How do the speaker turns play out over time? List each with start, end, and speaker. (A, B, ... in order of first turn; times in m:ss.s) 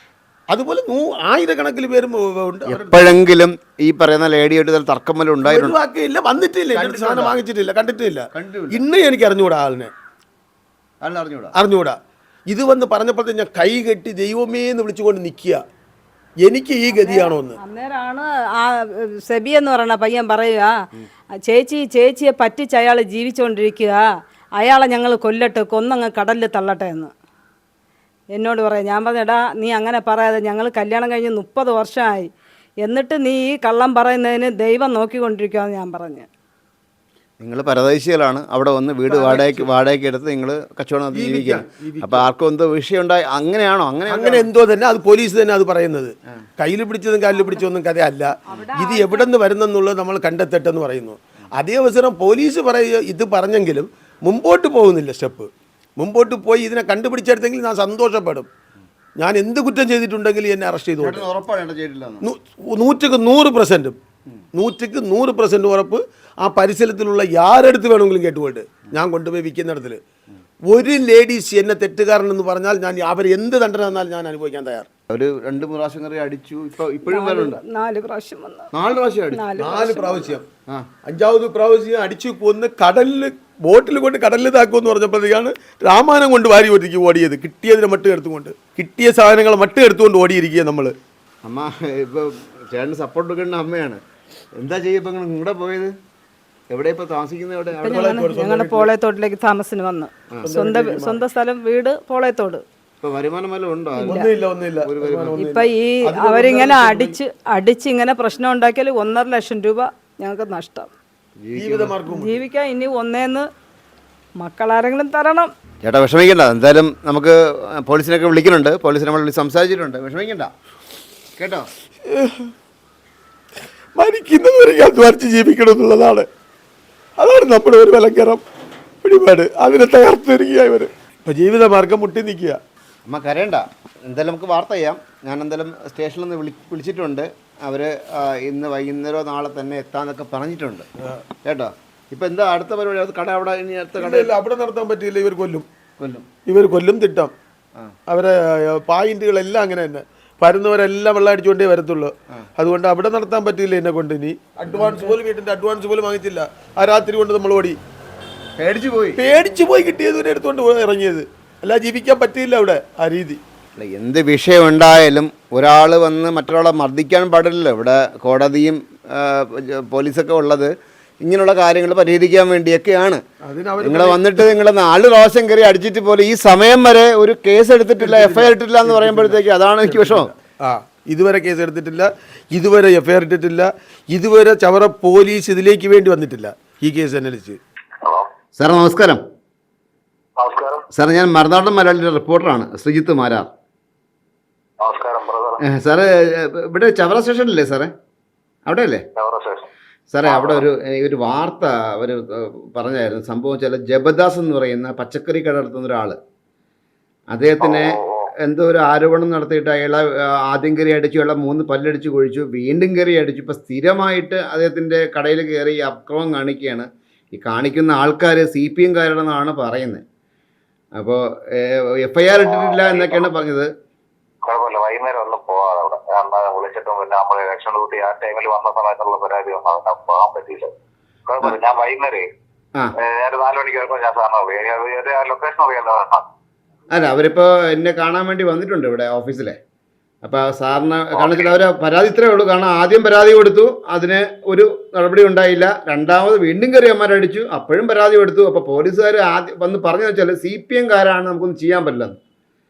0:00.5-0:03.2 A
0:02.7-0:05.8 B
0:05.4-0:09.9 A
0:06.7-0:07.4 B
0:08.3-0:08.8 B
0:11.0-0:11.5 B
0:11.5-0:15.6 A
0:16.4-0:17.6 A
0:16.9-0:20.7 C
0:21.5-0:24.0 C
0:24.6-0:27.1 C
0:28.3-0:32.3 C
0:32.8-0:36.3 C
0:37.4-0:44.5 B
0:39.1-0:39.7 A
0:41.1-0:42.3 A
0:44.1-0:58.5 A
0:47.3-0:47.7 C
0:48.5-0:49.3 C
0:59.2-1:01.2 A
1:01.0-1:02.2 B
1:02.2-1:04.0 A
1:04.6-1:10.0 A
1:10.7-1:14.9 A
1:15.1-1:17.6 B
1:17.1-1:18.7 C
1:18.7-1:19.5 B
1:19.3-1:20.4 C
1:19.6-1:20.5 A
1:21.0-1:30.9 A
1:31.4-1:34.0 B
1:34.6-1:35.9 B
1:36.7-1:38.2 B
1:37.7-1:42.6 C
1:37.9-1:38.9 A
1:40.4-1:41.2 A
1:43.0-1:45.4 B
1:44.0-1:44.3 C
1:44.0-1:47.2 A
1:45.4-1:50.9 C
1:51.4-1:52.0 B
1:51.6-1:52.4 A
1:52.1-1:53.5 C
1:54.4-1:55.5 C
1:55.8-2:00.5 B
2:01.4-2:01.7 B
2:02.0-2:02.5 A
2:04.0-2:06.3 A
2:07.2-2:08.4 A
2:09.0-2:12.6 A
2:13.1-2:20.9 B
2:21.4-2:24.4 B
2:24.0-2:25.7 A
2:26.0-2:26.3 B
2:26.4-2:27.3 A
2:28.1-2:37.8 A
2:34.7-2:35.1 B
2:38.6-2:39.2 B
2:39.2-2:43.4 A
2:43.8-2:50.7 B
2:51.2-2:53.2 B
2:53.4-2:54.3 A
2:53.8-3:00.3 B
2:58.0-3:07.6 A
3:08.0-3:08.3 D
3:08.6-3:09.2 B
3:10.4-3:10.9 D
3:10.9-3:13.5 B
3:14.8-3:15.6 D
3:15.6-3:17.9 B
3:18.7-3:19.0 B
3:19.2-3:19.7 D
3:20.1-3:26.2 B
3:20.2-3:20.7 D
3:27.3-3:40.0 B
3:27.6-3:28.3 D
3:41.0-3:43.7 B
3:42.4-3:43.3 D
3:44.4-3:50.7 D
3:51.3-3:52.3 D
3:53.0-3:56.2 D
3:56.9-3:59.6 B
4:00.2-4:12.2 B
4:01.1-4:01.6 D